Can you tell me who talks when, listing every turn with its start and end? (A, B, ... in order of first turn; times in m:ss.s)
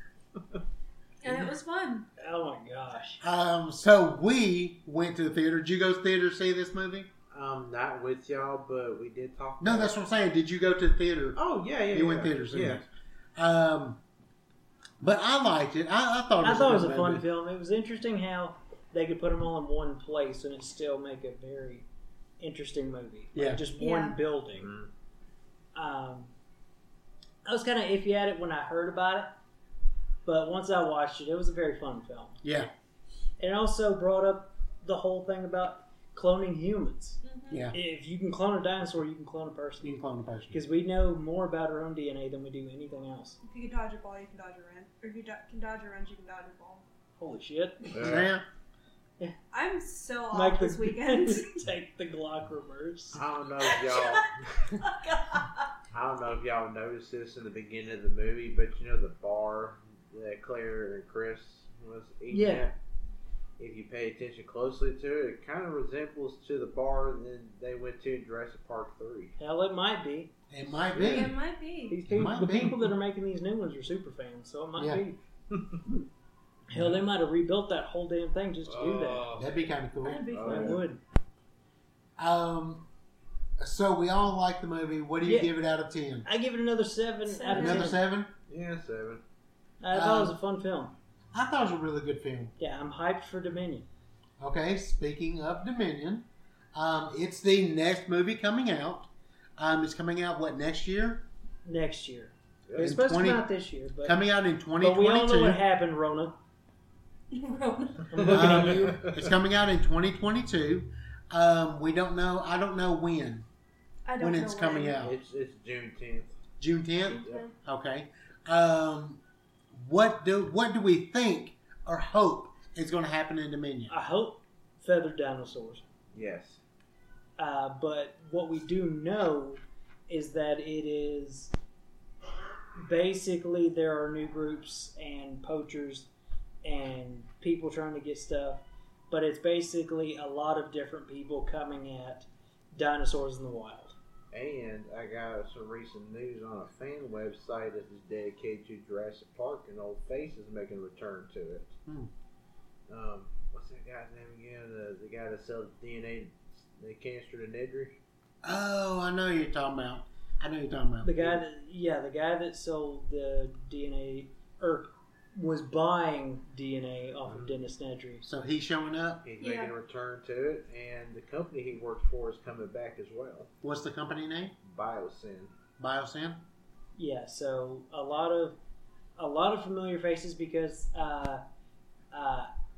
0:01.2-0:02.1 A
0:02.2-0:03.2 B
0:03.2-0:07.1 C
0:07.3-0:10.0 D
0:09.6-0:11.4 C
0:11.4-0:12.8 D
0:11.9-0:14.0 C
0:15.0-0:17.2 C
0:16.4-0:21.9 B
0:22.4-0:24.7 B
0:23.4-0:23.6 C
0:23.8-0:24.2 A
0:24.6-0:24.9 D
0:25.8-0:26.3 B
0:27.4-0:29.3 B
0:30.2-0:32.4 B
0:32.4-0:32.7 C
0:33.4-0:37.2 B
0:37.2-0:37.7 A
0:37.5-0:37.8 C
0:37.7-0:40.0 B
0:39.8-0:40.6 C
0:40.5-0:43.4 B
0:43.4-0:46.8 A
0:47.2-0:48.0 B
0:47.9-0:48.3 D
0:48.0-0:48.4 C
0:49.5-0:51.5 A
0:50.3-0:53.2 B
0:53.1-0:54.7 D
0:53.6-0:55.7 A
0:55.9-1:02.8 D
1:02.3-1:02.7 B
1:03.6-1:09.4 D
1:09.4-1:10.3 B
1:10.5-1:11.4 C
1:10.9-1:11.3 D
1:11.0-1:12.0 A
1:11.9-1:15.2 B
1:12.1-1:12.8 C
1:14.8-1:15.0 C
1:15.5-1:15.8 D
1:16.7-1:19.3 B
1:18.7-1:19.5 D
1:19.4-1:20.3 C
1:20.0-1:20.8 A
1:20.3-1:20.8 D
1:20.4-1:21.0 B
1:22.2-1:22.9 C
1:23.6-1:26.3 C
1:25.2-1:25.5 B
1:26.2-1:28.0 B
1:27.3-1:27.9 A
1:27.5-1:28.3 C
1:28.5-1:29.2 D
1:29.8-1:31.0 B
1:29.9-1:30.4 C
1:31.3-1:32.5 C
1:32.6-1:33.9 B
1:34.4-1:41.3 C
1:41.6-1:44.2 B
1:42.7-1:43.0 D
1:42.8-1:43.5 C
1:44.0-1:45.6 C
1:44.8-1:46.4 B
1:47.3-1:48.1 A
1:48.1-1:48.9 B
1:48.2-1:49.2 D
1:48.3-1:53.5 C
1:54.0-1:55.0 A
1:54.2-1:55.2 C
1:55.0-1:56.3 D
1:56.6-1:59.2 C
1:57.1-1:57.5 A
1:59.7-2:03.9 C
2:03.9-2:05.9 B
2:06.1-2:06.6 D
2:07.4-2:11.5 B
2:12.8-2:16.1 B
2:16.6-2:24.0 B
2:24.3-2:31.8 D
2:32.9-2:38.0 D
2:38.4-2:41.4 C
2:41.0-2:48.3 B
2:48.2-2:49.2 C
2:49.2-2:53.5 D
2:49.4-2:49.7 A
2:53.6-2:54.5 C
2:54.6-2:55.5 D
2:55.8-2:56.4 C
2:57.0-2:58.6 B
2:59.2-3:01.4 B
3:02.1-3:02.5 B